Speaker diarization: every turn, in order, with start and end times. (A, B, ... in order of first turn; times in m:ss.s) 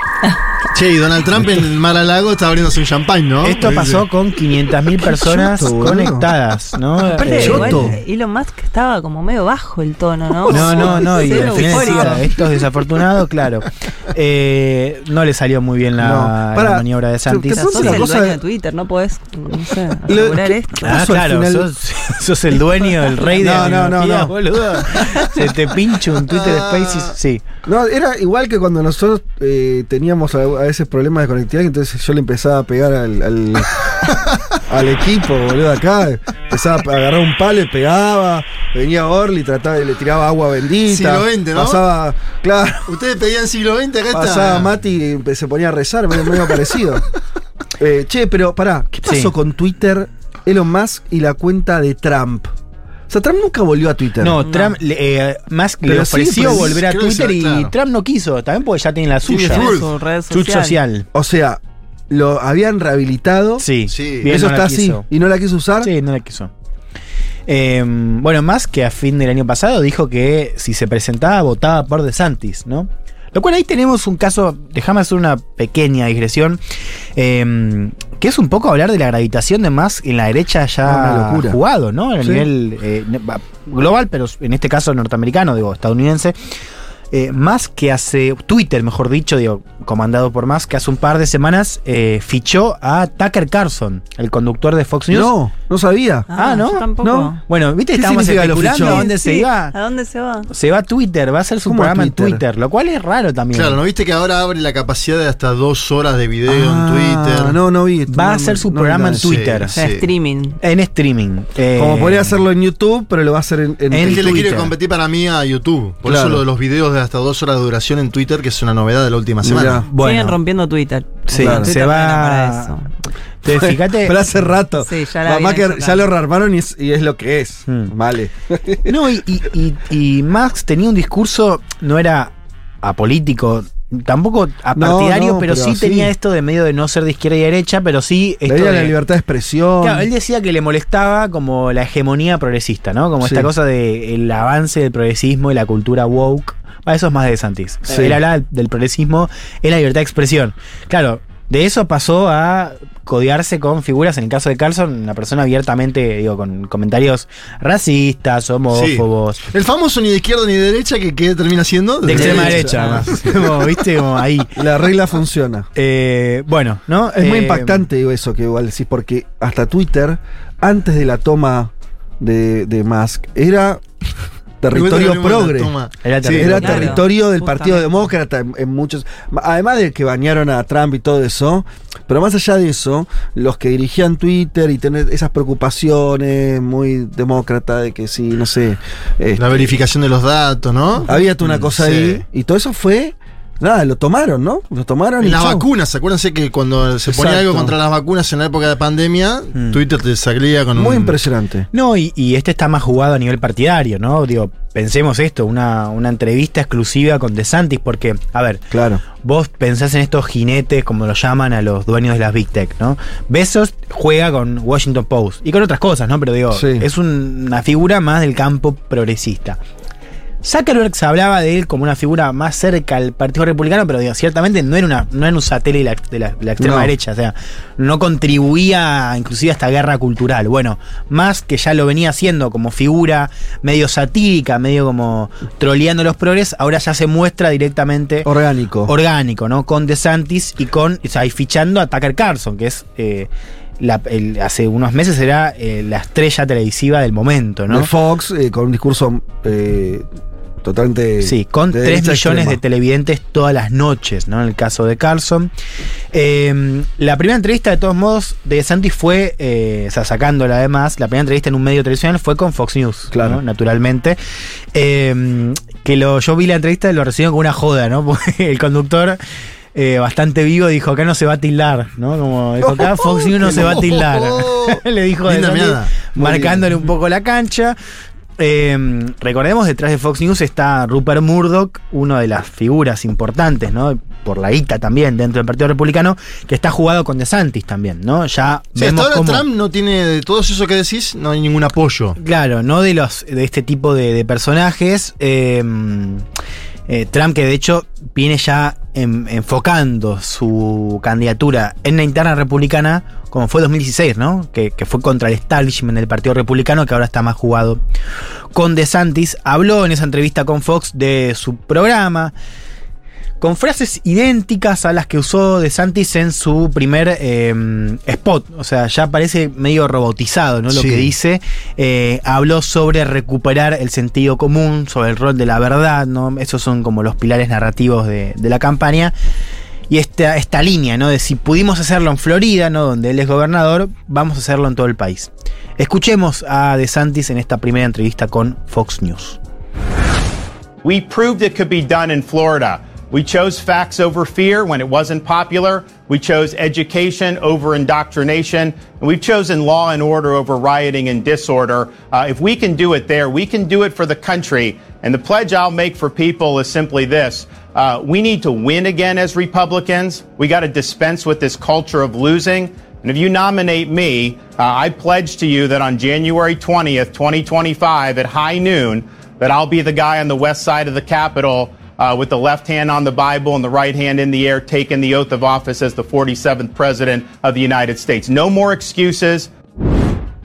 0:00.7-0:04.0 A
0:03.4-0:07.9 B
0:05.0-0:06.3 C
0:07.1-0:12.2 D
0:07.3-0:07.9 C
0:10.5-0:12.1 C
0:10.5-0:18.1 B
0:16.0-0:18.4 C
0:17.5-0:20.9 D
0:20.1-0:21.7 C
0:20.8-0:27.4 B
0:23.4-0:25.4 C
0:26.3-0:27.1 A
0:27.6-0:33.7 C
0:34.0-0:34.4 A
0:34.7-0:42.9 C
0:40.9-0:41.8 A
0:42.9-0:44.7 A
0:44.1-0:47.0 C
0:47.8-0:52.5 C
0:49.0-0:49.3 B
0:53.1-0:54.4 C
0:54.2-0:59.7 B
0:54.4-0:54.8 D
0:55.8-0:56.8 C
0:56.4-0:57.7 A
0:59.2-0:59.9 A
0:59.4-1:00.8 D
1:00.3-1:01.0 B
1:01.1-1:03.7 C
1:03.6-1:05.0 B
1:03.9-1:04.3 A
1:04.2-1:05.9 C
1:05.8-1:06.5 B
1:07.5-1:16.6 B
1:17.2-1:26.4 B
1:20.8-1:21.6 C
1:27.1-1:35.3 B
1:35.1-1:36.3 C
1:36.3-1:37.4 D
1:36.3-1:39.7 B
1:37.0-1:37.3 C
1:37.9-1:39.0 C
1:38.7-1:40.5 D
1:40.5-1:43.8 B
1:41.6-1:42.4 C
1:43.5-1:47.6 A
1:46.5-1:49.4 C
1:48.1-1:49.7 B
1:49.2-1:50.0 A
1:49.7-1:50.6 D
1:50.6-1:52.4 B
1:51.7-1:54.4 C
1:53.9-1:54.7 B
1:54.0-1:59.8 A
1:56.0-1:56.4 C
1:59.4-1:59.8 C
1:59.9-2:00.4 B
1:59.9-2:02.9 D
2:01.3-2:02.7 B
2:01.3-2:01.7 C
2:03.4-2:04.2 B
2:03.5-2:08.9 C
2:04.8-2:06.1 D
2:08.9-2:18.9 B
2:14.8-2:16.1 C
2:18.5-2:20.1 C
2:19.8-2:39.4 B
2:23.2-2:23.5 C
2:27.9-2:28.2 C
2:38.7-2:43.8 A
2:42.0-2:44.5 B
2:42.1-2:42.8 C
2:44.6-2:45.7 C
2:45.7-2:47.8 B
2:47.1-2:53.8 C
2:54.6-2:55.7 C
2:54.7-2:56.9 A
2:56.0-2:57.0 B
2:56.3-3:09.8 C
2:56.6-2:58.0 D
3:09.4-3:12.2 A
3:11.1-3:15.6 C
3:15.2-3:21.2 A
3:17.1-3:17.7 C
3:20.8-3:21.7 C
3:21.7-3:39.6 B
3:28.7-3:29.0 C
3:36.5-3:36.8 C
3:40.4-3:58.3 B
3:46.6-3:46.9 C
3:58.2-3:58.9 C
3:58.8-4:07.9 B
4:07.7-4:10.0 C
4:10.6-4:12.6 C
4:11.2-4:15.5 B
4:16.1-4:24.2 B
4:23.1-4:23.4 C
4:24.7-4:29.2 B
4:29.7-4:37.8 B
4:33.3-4:35.9 A
4:36.2-4:36.7 C
4:38.4-4:49.4 B
4:48.8-4:52.2 A
4:52.2-4:56.2 B
4:56.9-5:07.8 B
5:08.5-5:12.3 B
5:13.4-5:29.1 B
5:20.7-5:21.0 A
5:29.9-5:39.4 B
5:40.8-6:19.5 E